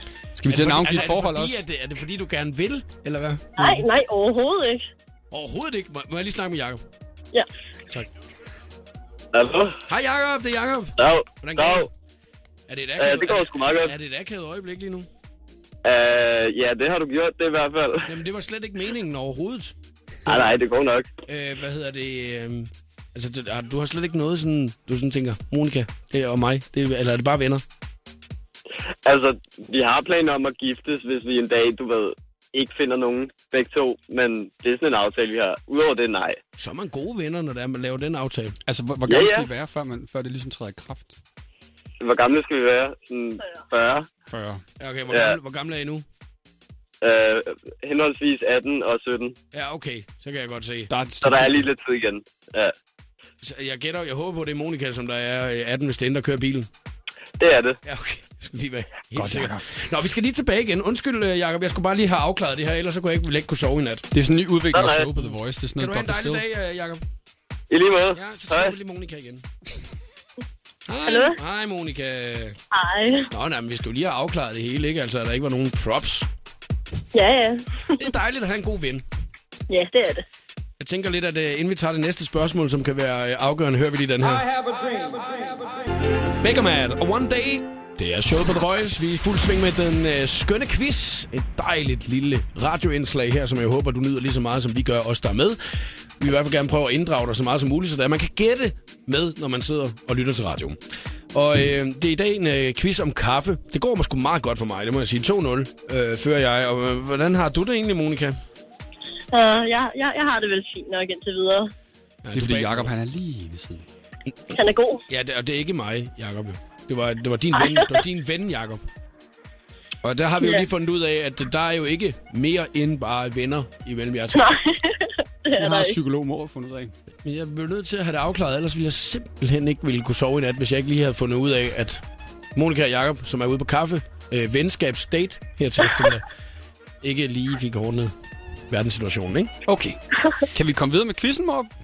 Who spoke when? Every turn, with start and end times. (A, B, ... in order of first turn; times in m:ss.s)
0:00.4-0:01.6 A
0:00.5-0:03.8 B
0:03.6-0:04.9 C
0:05.3-0:06.8 B
0:09.3-0:09.8 D
0:09.9-0:11.9 B
0:11.0-0:11.9 D
0:12.7-0:15.1 B
0:13.0-0:13.9 D
0:15.8-0:18.1 D
0:18.0-0:19.7 B
0:20.3-0:20.6 B
0:20.3-0:21.1 D
0:21.3-0:27.6 B
0:29.0-0:36.4 D
0:36.6-0:38.6 B
0:38.7-0:41.2 A
0:39.0-0:39.5 D
0:42.0-0:44.1 D
0:44.3-0:44.6 A
0:44.8-0:46.0 B
0:45.1-0:45.4 D
0:47.0-0:49.3 D
0:49.5-0:50.9 B
0:50.9-0:51.7 A
0:51.2-0:52.7 D
0:53.4-0:56.7 B
0:57.4-0:57.8 D
0:57.8-1:04.0 B
0:59.1-0:59.6 A
1:04.1-1:06.4 A
1:04.7-1:05.1 D
1:05.8-1:07.0 B
1:07.7-1:08.7 D
1:08.1-1:09.4 B
1:10.9-1:12.6 B
1:11.0-1:11.4 C
1:12.7-1:13.3 C
1:13.3-1:16.3 B
1:17.1-1:18.0 C
1:18.0-1:19.0 B
1:19.7-1:20.2 C
1:20.8-1:24.5 B
1:26.4-1:35.6 B
1:36.2-1:40.8 B
1:41.3-1:48.4 B
1:49.3-1:51.7 C
1:52.2-1:52.9 B
1:52.3-1:53.9 A
1:54.5-1:55.0 C
1:55.1-1:58.8 B
1:57.5-1:58.0 C
2:00.0-2:04.5 B
2:00.4-2:00.7 C
2:04.3-2:06.0 C
2:05.5-2:06.9 A
2:07.2-2:12.0 B
2:12.6-2:16.2 B
2:17.0-2:18.1 B
2:18.7-2:19.5 B
2:19.7-2:21.7 A